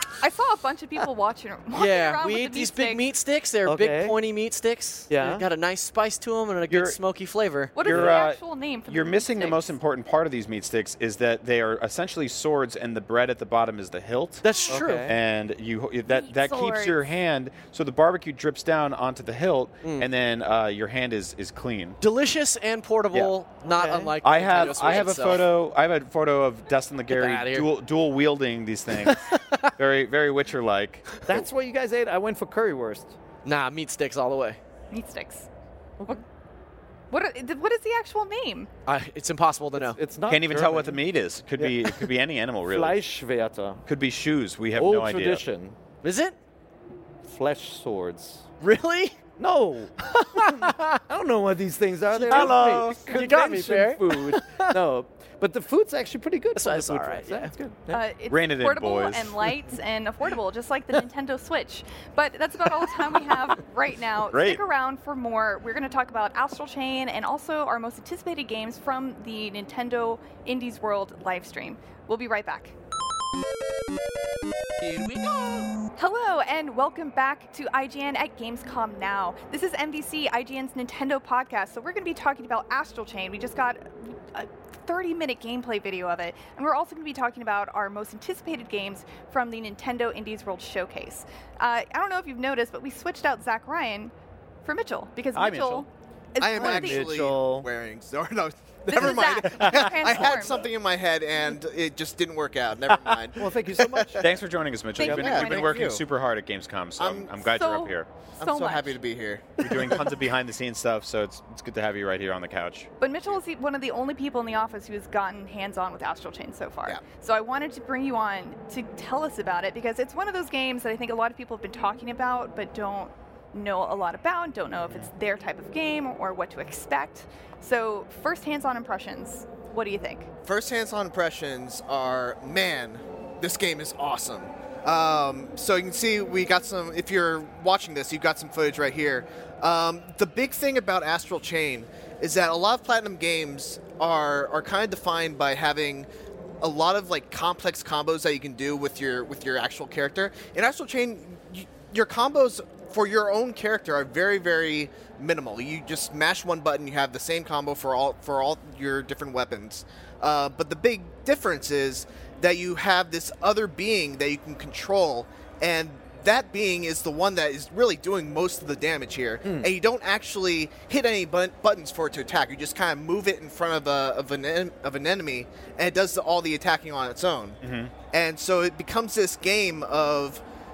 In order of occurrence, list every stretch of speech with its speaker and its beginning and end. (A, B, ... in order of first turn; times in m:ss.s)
0:00.2-0:03.0 A
0:01.7-0:07.8 B
0:03.6-0:04.1 C
0:05.1-0:05.4 C
0:06.7-0:07.0 D
0:07.7-0:09.8 A
0:07.8-0:22.0 D
0:14.4-0:15.1 B
0:14.7-0:15.1 C
0:16.1-0:17.0 A
0:19.8-0:20.1 B
0:22.0-0:25.5 B
0:23.7-0:24.1 C
0:24.2-0:31.4 D
0:27.1-0:27.7 B
0:28.9-0:29.7 B
0:31.2-0:33.1 C
0:33.4-0:34.6 B
0:34.9-0:35.5 A
0:37.1-0:38.7 A
0:38.8-0:40.0 B
0:39.8-0:41.0 C
0:40.3-0:42.9 D
0:41.6-0:42.1 C
0:42.7-0:43.8 C
0:43.8-0:45.4 D
0:44.7-0:45.8 C
0:46.0-0:46.4 B
0:47.2-0:48.4 C
0:48.6-0:49.2 B
0:49.4-0:58.0 C
0:50.1-0:50.9 B
0:52.2-0:54.8 B
0:52.2-0:53.2 D
0:56.6-0:57.5 B
0:57.9-1:12.7 A
0:58.3-0:59.5 D
1:04.3-1:04.6 D
1:14.8-1:15.7 E
1:16.0-1:34.1 A
1:34.6-1:37.1 A
1:35.3-1:35.8 D
1:36.4-1:44.2 E
1:36.6-1:37.7 C
1:38.9-1:40.7 A
1:39.6-1:40.0 D
1:43.4-1:44.4 C
1:44.2-1:48.1 D
1:45.0-1:45.9 A
1:45.0-1:46.0 E
1:47.0-1:47.3 E
1:47.4-1:49.0 A
1:48.4-1:49.7 E
1:49.6-1:52.9 D
1:53.0-2:10.3 A
2:10.4-2:26.1 E
2:26.6-3:00.4 E
2:49.4-2:49.7 C
2:57.6-2:57.9 D